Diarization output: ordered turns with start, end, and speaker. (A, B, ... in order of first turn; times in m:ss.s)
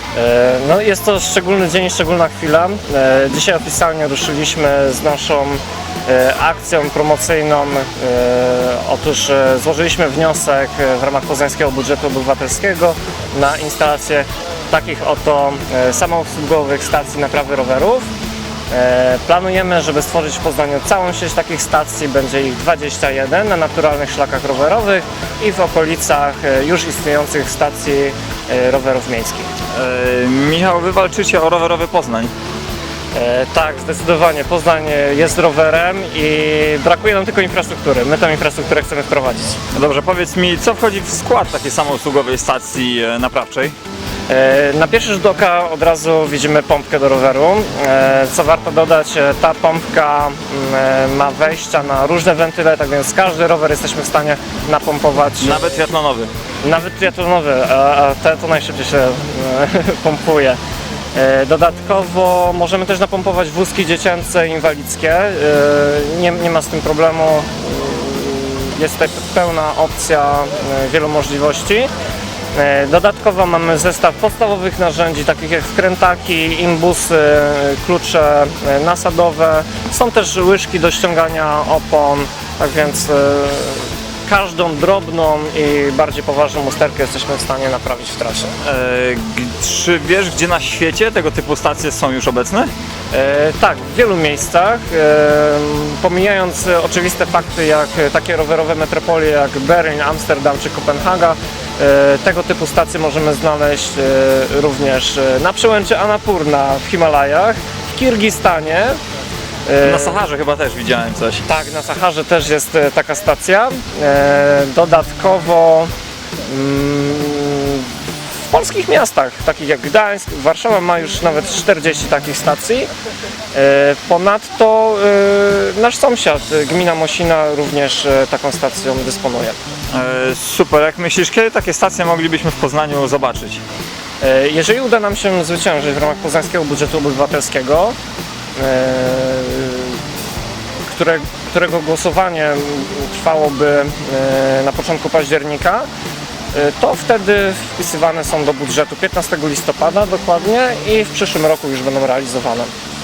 0:00.2-0:18.1 A
0:18.7-0:29.5 A
0:29.7-0:32.3 B
0:33.1-0:39.6 A
0:39.7-0:43.7 B
0:44.3-0:55.7 A
0:55.4-0:56.3 B
0:56.6-1:00.6 A
1:01.2-1:11.9 A
1:12.5-1:28.5 A
1:28.6-1:32.7 B
1:33.1-1:49.0 A
1:49.7-1:50.2 A
1:49.8-1:51.4 B
1:51.4-1:55.9 A
1:56.4-1:57.9 A
1:58.5-2:02.9 A
2:03.5-2:09.6 A
2:09.9-2:13.6 B
2:14.2-2:18.0 A
2:18.6-2:20.0 A
2:20.8-2:25.9 A
2:26.5-2:32.7 A